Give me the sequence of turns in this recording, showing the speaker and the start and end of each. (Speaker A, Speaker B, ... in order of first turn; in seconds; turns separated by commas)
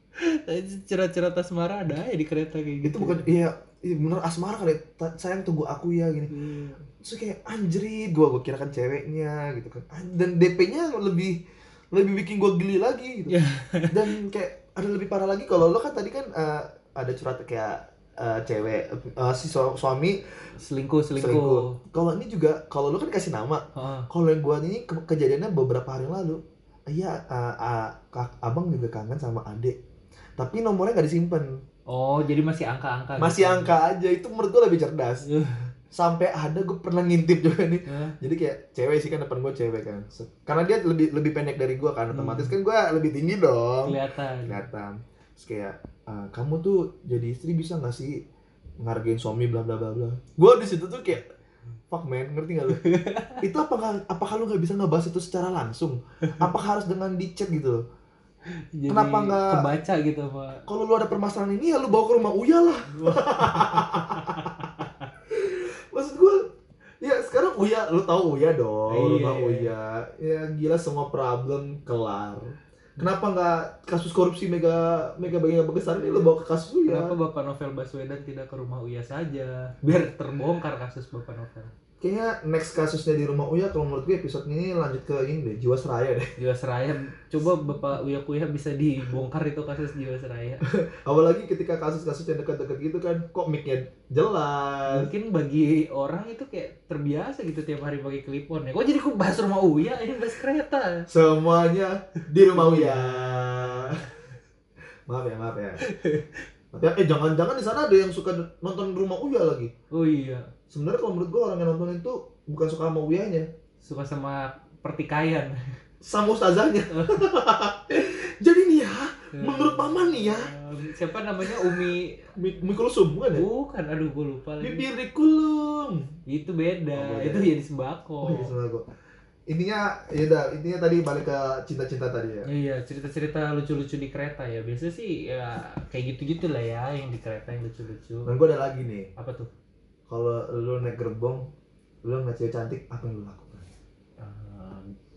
Speaker A: 0.2-3.3, Speaker B: 2.8-6.3, Speaker A: 6.3-6.8, Speaker B: 6.9-11.4, Speaker B: 11.9-13.4, Speaker A: 13.3-14.1, Speaker B: 13.9-20.3, Speaker A: 20.6-21.8, Speaker B: 21.2-29.8, Speaker A: 23.8-24.1, Speaker B: 30.4-31.6, Speaker A: 31.9-33.7, Speaker B: 33.2-35.3, Speaker A: 35.2-35.7, Speaker B: 35.9-48.2, Speaker A: 37.9-38.1, Speaker A: 42.1-42.5, Speaker A: 43.9-44.6, Speaker B: 48.8-51.2, Speaker B: 51.9-52.8, Speaker A: 52.7-53.4, Speaker B: 53.4-57.8, Speaker A: 58.8-60.6, Speaker B: 58.9-59.7, Speaker B: 60.7-64.7, Speaker A: 62.9-65.1, Speaker B: 65.3-66.5, Speaker B: 67.0-77.2, Speaker A: 68.9-69.7, Speaker A: 76.0-76.3, Speaker A: 76.9-81.7, Speaker B: 82.0-86.3, Speaker A: 86.4-90.7, Speaker B: 90.7-95.1, Speaker A: 94.9-101.1, Speaker B: 101.1-104.1, Speaker A: 102.4-104.1, Speaker B: 105.1-105.8, Speaker A: 105.8-106.4, Speaker B: 106.7-109.7, Speaker A: 109.9-110.5, Speaker B: 110.7-113.5, Speaker A: 113.8-115.6, Speaker B: 116.0-120.5, Speaker A: 116.9-117.2, Speaker A: 119.3-122.3, Speaker B: 121.4-123.5, Speaker A: 123.3-124.9, Speaker B: 124.6-126.1, Speaker A: 126.3-128.5, Speaker B: 127.0-127.5, Speaker B: 128.2-128.9, Speaker B: 129.5-132.5, Speaker A: 132.4-138.3, Speaker B: 138.2-139.1, Speaker A: 139.2-139.5, Speaker B: 140.1-141.5, Speaker B: 142.0-143.7, Speaker A: 144.2-144.9